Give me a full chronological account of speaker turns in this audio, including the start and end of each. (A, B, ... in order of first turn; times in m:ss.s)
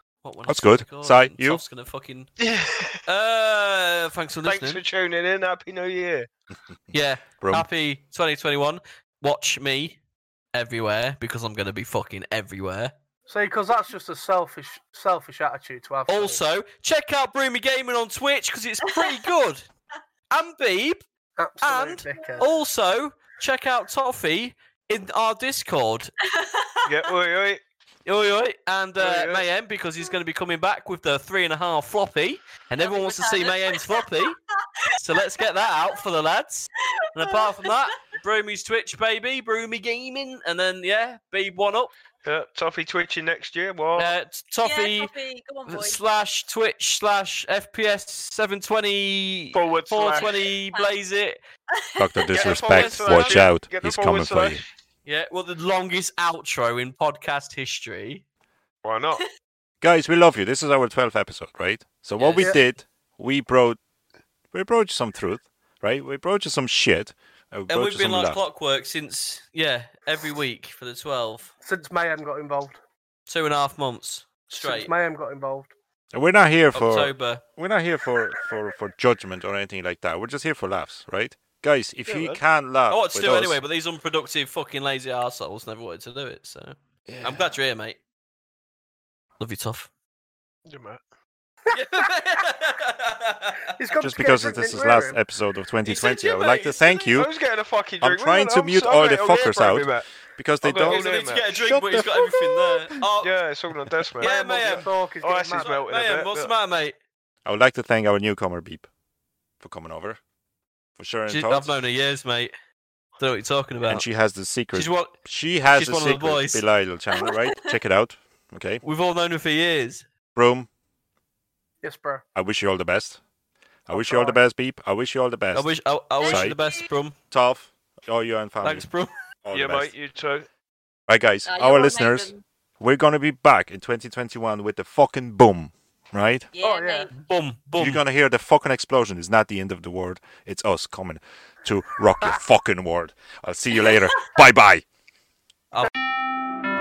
0:00.2-0:02.3 A
0:00.5-0:01.6 B
0:02.4-0:03.0 C
0:03.0-0:04.8 A
0:04.4-0:06.3 C
0:06.9-0:10.0 A
0:07.4-0:07.7 B
0:10.5-0:12.9 A
0:13.3-0:16.4 D
0:16.1-0:19.7 A
0:20.3-0:21.0 A
0:21.4-0:22.5 D
0:21.6-0:26.1 A
0:26.2-0:27.1 E
0:26.9-0:27.6 C
0:28.0-0:34.4 A
0:29.0-0:29.4 C
0:32.8-0:35.4 E
0:35.0-0:41.9 A
0:37.0-0:37.9 E
0:42.2-0:44.1 C
0:44.0-0:45.1 A
0:44.6-0:46.0 E
0:45.7-0:51.4 A
0:49.5-0:50.5 C
0:50.1-0:51.0 E
0:51.7-0:52.4 E
0:52.0-0:54.6 B
0:52.3-0:54.7 C
0:52.4-0:53.5 A
0:55.0-0:58.2 A
0:58.8-0:59.2 C
0:59.8-1:03.8 B
1:02.2-1:02.5 A
1:04.5-1:08.4 B
1:07.7-1:11.5 A
1:11.6-1:12.8 D
1:13.3-1:14.9 A
1:14.6-1:15.7 D
1:16.1-1:23.6 B
1:16.7-1:17.4 A
1:22.0-1:22.4 C
1:22.9-1:28.0 A
1:27.1-1:27.5 B
1:29.4-1:29.9 A
1:30.7-1:31.0 C
1:31.7-1:33.6 A
1:33.8-1:35.2 D
1:34.0-1:37.3 B
1:35.8-1:37.2 A
1:37.1-1:40.1 C
1:38.0-1:42.2 B
1:40.6-1:41.5 C
1:40.8-1:43.3 A
1:43.2-1:46.5 C
1:44.2-1:44.9 A
1:44.2-1:45.7 D
1:45.6-1:46.9 A
1:47.4-1:48.9 B
1:49.6-1:50.2 B
1:51.0-1:51.8 B
1:51.3-1:52.5 A
1:53.2-1:54.1 A
1:53.9-1:58.8 B
1:54.7-1:55.2 A
1:55.7-1:56.6 A
1:58.8-2:00.0 A
2:00.4-2:00.7 B
2:01.8-2:02.2 D
2:02.3-2:03.2 B
2:03.9-2:06.6 B
2:03.9-2:04.4 D
2:05.5-2:07.1 A
2:06.2-2:06.8 E
2:07.3-2:08.9 B
2:08.6-2:09.1 A
2:09.4-2:09.9 B
2:09.5-2:10.5 C
2:11.1-2:16.5 B
2:11.4-2:12.4 E
2:16.5-2:17.1 E
2:16.6-2:17.1 D
2:17.1-2:18.0 A
2:17.8-2:24.8 B